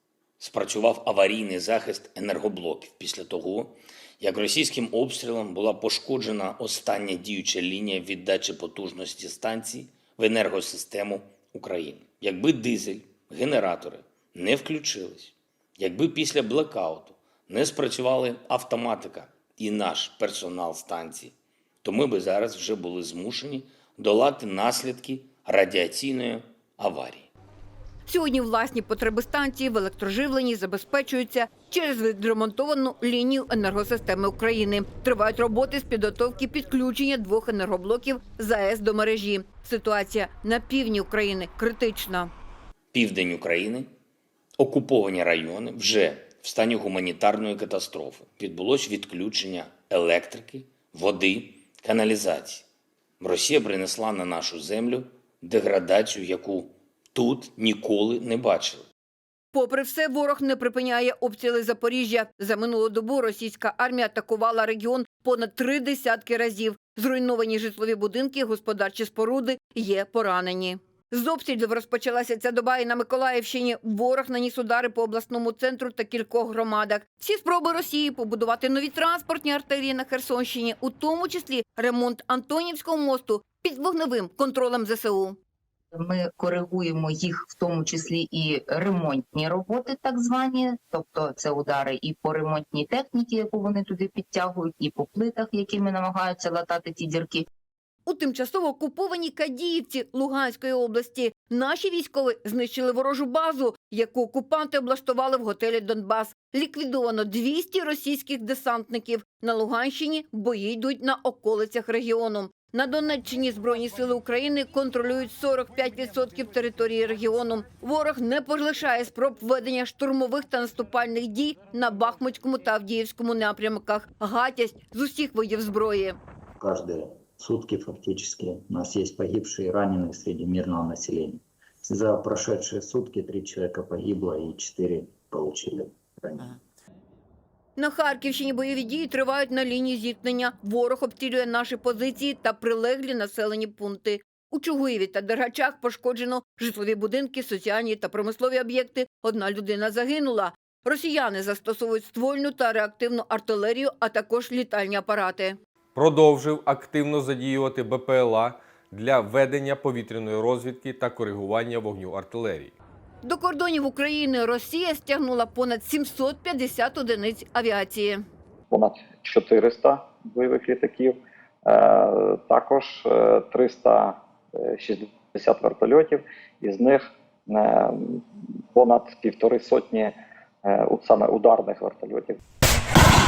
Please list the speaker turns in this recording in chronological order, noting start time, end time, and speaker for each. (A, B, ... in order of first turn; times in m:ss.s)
0:00.4-0:27.3 A
0:28.1-0:42.3 B
0:42.9-0:43.9 A
0:44.6-0:52.6 A
0:53.2-0:58.9 A
0:59.5-1:25.4 B
1:26.0-1:37.4 C
1:38.1-2:06.2 B
2:06.6-2:16.6 D
2:17.8-2:35.6 B
2:36.0-2:42.8 E
2:43.2-2:48.2 B
2:48.7-3:02.4 F